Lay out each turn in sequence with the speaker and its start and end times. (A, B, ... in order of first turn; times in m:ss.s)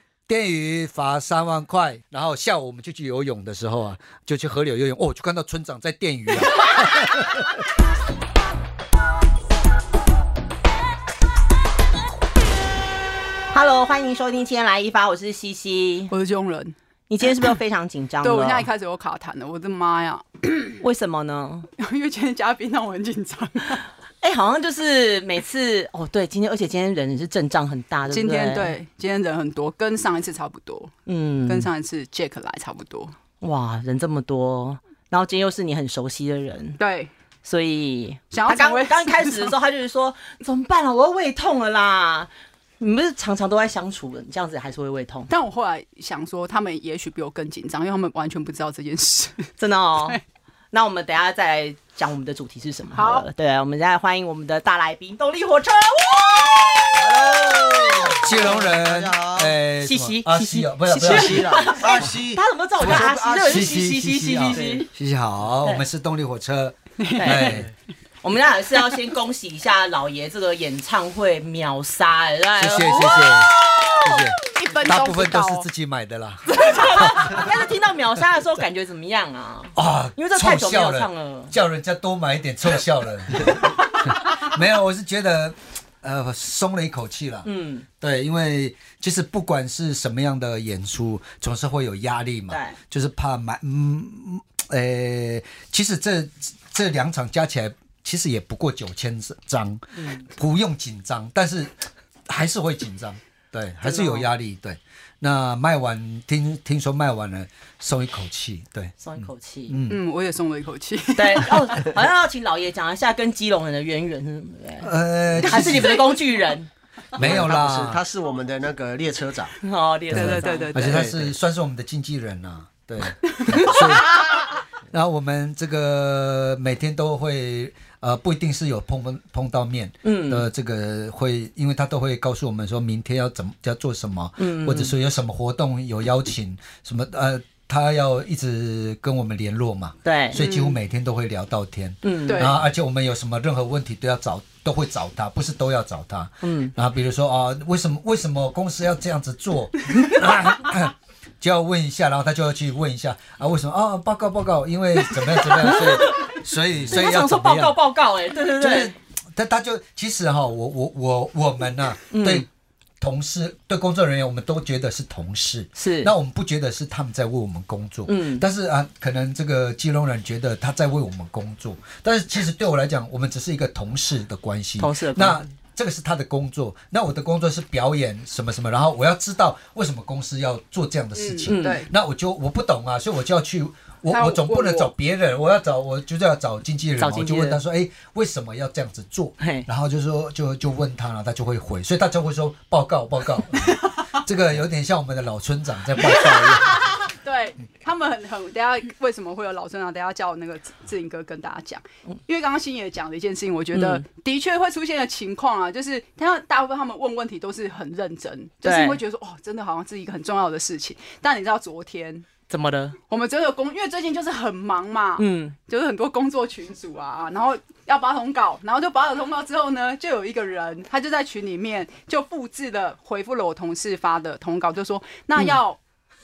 0:00.3-0:07.4 A
0:13.5-0:16.1 B
0:16.1-0:16.8 C
0:17.1-0:18.7 B
0:18.2-0:20.8 C
0:20.8-0:21.7 B
0:21.8-0:23.8 C
0:24.2-0:28.8 B
0:28.1-0:30.9 C
0:31.1-0:31.7 B
0:31.5-0:33.2 C
0:33.4-0:36.8 B
0:36.8-0:37.1 C
0:37.4-0:42.3 B
0:38.3-0:39.6 C
0:42.8-0:45.3 B
0:45.3-0:49.5 C
0:49.6-0:50.2 B
0:50.7-0:57.2 B
0:52.9-0:53.3 C
0:57.0-0:59.6 D
0:58.2-1:01.6 A
0:59.8-1:04.9 B
1:01.0-1:03.9 D
1:02.8-1:07.7 A
1:04.5-1:04.9 D
1:07.0-1:07.6 C
1:07.1-1:07.7 B
1:08.2-1:13.6 B
1:12.6-1:17.5 A
1:12.8-1:15.7 C
1:16.5-1:21.5 B
1:19.8-1:27.5 A
1:27.4-1:27.8 B
1:28.0-1:41.7 A
1:32.5-1:32.8 B
1:40.0-1:40.2 B
1:42.3-1:50.0 A
1:43.8-1:44.3 B
1:49.0-1:49.8 B
1:49.9-1:51.9 C
1:51.2-1:54.9 B
1:54.8-1:56.1 A
1:55.4-1:56.7 B
1:55.5-1:56.2 C
1:57.2-1:58.0 A
1:57.2-1:59.6 D
1:59.6-2:00.7 B
2:00.1-2:04.4 A
2:00.1-2:01.1 C
2:00.8-2:01.3 D
2:03.5-2:03.8 C
2:04.9-2:37.8 A
2:10.0-2:10.5 B
2:14.4-2:14.9 B
2:20.0-2:20.7 B
2:20.4-2:20.7 C
2:22.0-2:22.5 B
2:22.3-2:22.6 C
2:26.4-2:26.7 B
2:35.1-2:38.9 B
2:38.6-2:42.5 A
2:42.1-2:42.5 B
2:43.0-3:16.8 A
2:45.8-2:46.1 B
2:48.1-2:48.4 B
2:54.8-2:55.5 B
3:01.2-3:01.9 C
3:01.5-3:01.9 B
3:04.1-3:04.9 C
3:07.0-3:07.6 B
3:09.4-3:09.7 B
3:16.1-3:32.3 C
3:23.7-3:24.0 B
3:28.6-3:29.0 B
3:32.5-3:33.0 B
3:33.1-3:45.8 C
3:35.2-3:35.6 B